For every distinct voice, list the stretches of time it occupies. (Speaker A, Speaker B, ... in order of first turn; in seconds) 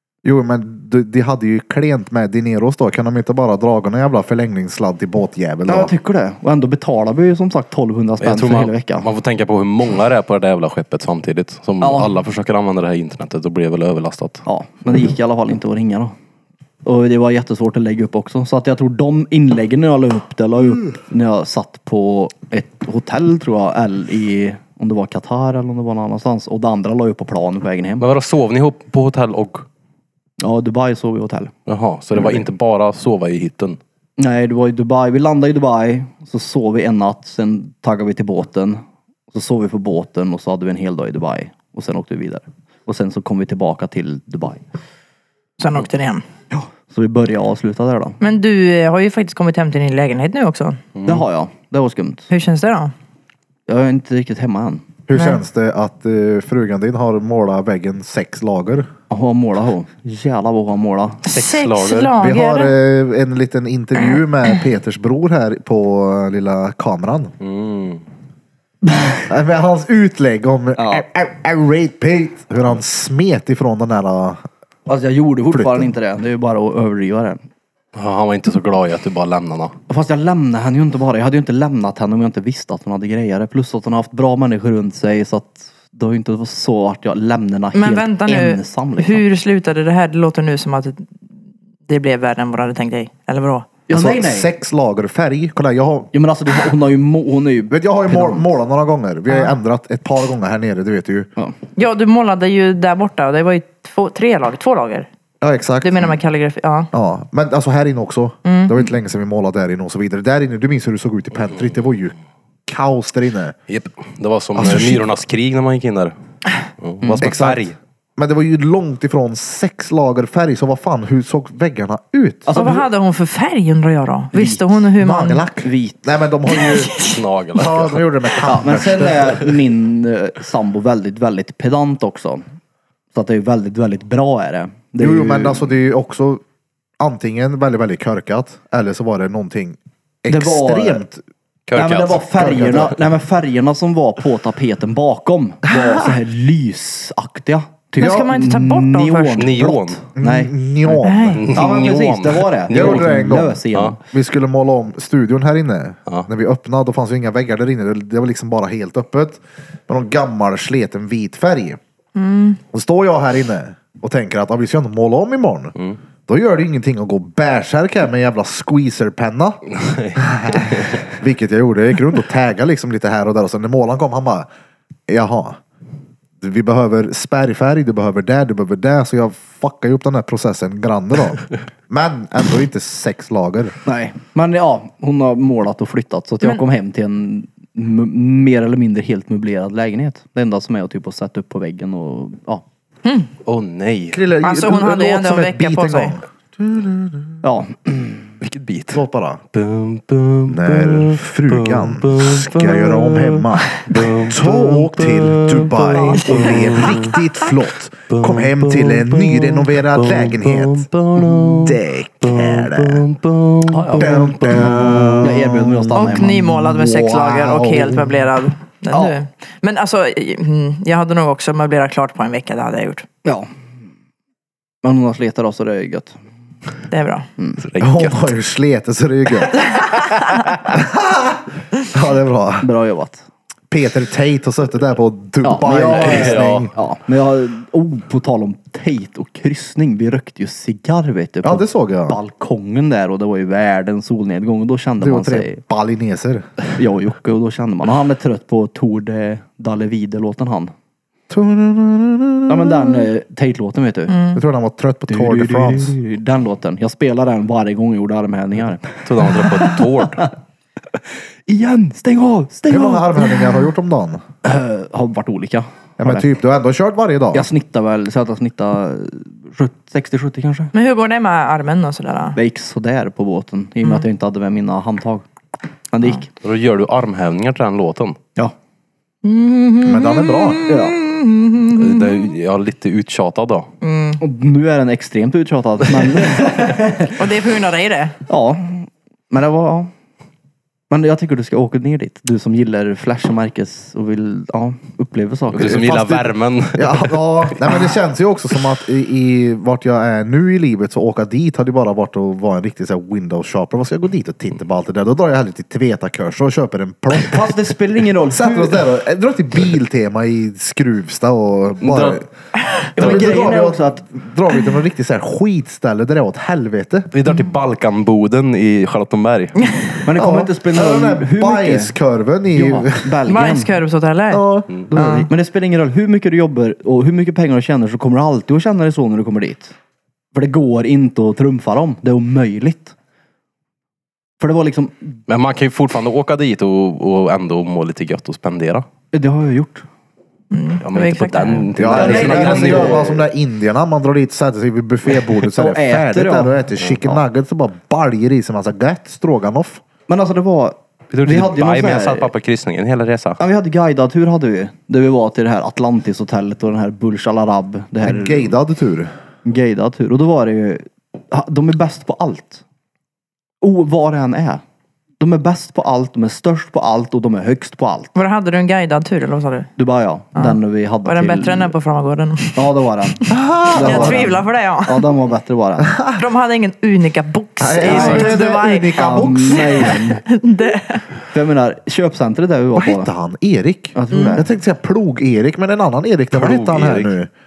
Speaker A: 0.2-5.9, 55.1-58.9, 62.2-67.3, 69.3-74.4, 93.9-96.1, 97.7-101.3, 105.4-106.0, 106.9-112.1, 112.7-113.5, 117.2-117.6, 118.2-122.5, 125.0-126.9, 127.7-129.4, 135.0-136.4, 137.0-141.2, 142.4-142.9, 150.2-151.4, 152.7-153.6, 154.1-161.8, 162.7-165.7, 166.3-169.6, 171.2-174.5, 175.1-175.6, 176.4-183.7, 194.1-197.3, 198.9-199.4, 200.6-210.8, 211.8-213.1, 213.9-218.1, 227.8-229.6, 230.8-231.4, 231.9-232.6, 233.7-236.7, 241.4-242.2, 245.0-246.4, 251.3-252.9, 254.4-255.9, 262.7-264.2, 266.0-267.5, 279.9-280.6, 296.8-307.4, 308.4-312.2, 313.0-317.1, 320.1-323.0, 324.3-324.6, 341.8-349.8, 358.0-359.1, 373.3-374.3, 375.9-376.2, 377.6-379.9, 382.8-387.3
Speaker B: 5.7-9.1, 11.8-12.2, 14.4-16.1, 16.9-28.1, 30.4-31.5, 34.2-44.6, 46.5-48.2, 51.0-52.3, 53.7-54.9, 59.1-61.2, 70.8-71.0, 74.9-77.4, 79.9-89.2, 93.9-94.5, 96.1-98.5, 117.0-117.3, 122.5-122.9, 124.3-124.8, 125.6-126.0, 128.4-132.4, 133.1-135.7, 140.3-141.1, 141.8-150.9, 151.5-154.0, 183.8-192.6, 197.4-198.3, 211.2-211.6, 213.7-214.1, 215.2-216.4, 224.8-226.2, 232.6-233.2, 235.4-245.6, 246.8-250.7, 252.5-254.2, 255.1-260.3, 261.5-263.3, 264.4-266.3, 267.3-270.7, 272.4-275.3, 275.9-276.3, 280.6-281.0, 284.2-287.2, 288.3-289.9, 290.9-296.3, 307.2-308.9, 312.9-314.0, 320.1-322.0, 322.5-323.8, 324.9-329.7, 330.3-332.9, 334.4-335.2, 339.1-339.9, 341.9-343.1, 345.4-346.6, 350.1-352.3, 353.4-358.5, 359.4-362.6, 363.6-364.6, 365.2-368.1, 369.8-371.7, 372.6-376.0, 377.8-378.4, 378.9-380.2, 381.3-383.1, 383.9-384.5
Speaker C: 8.2-14.4, 28.0-29.7, 31.7-33.8, 51.0-51.2, 61.3-62.1, 67.4-68.0, 78.0-79.8, 113.7-116.1, 116.8-117.8, 127.0-128.1, 141.7-142.2, 149.4-150.0, 151.3-153.1, 169.7-171.0, 193.5-194.2, 198.4-199.0, 199.5-207.2, 208.1-215.2, 227.6-228.3, 235.9-236.7, 259.1-260.3, 276.4-278.2, 281.7-283.7, 295.5-297.6, 311.8-312.2, 313.0-313.4, 317.1-319.7, 335.3-338.9, 340.8-343.2, 351.1-353.4, 386.3-387.1
Speaker D: 45.6-46.2, 48.2-50.8, 52.3-52.9, 55.1-55.4, 61.2-62.7, 87.7-91.1, 91.9-93.7, 99.3-99.5, 101.8-105.1, 105.8-106.9, 108.5-108.9, 122.5-125.5, 126.5-127.2, 148.0-149.5, 151.0-151.7, 162.1-162.6, 194.4-196.1, 206.0-207.2, 215.9-223.1, 226.9-227.3, 254.1-254.4, 270.7-272.4, 279.2-282.2, 283.8-284.2, 287.1-288.1, 323.3-325.3, 340.5-341.9, 368.1-369.7, 370.4-372.7, 373.3-375.1, 376.1-381.1, 384.1-384.4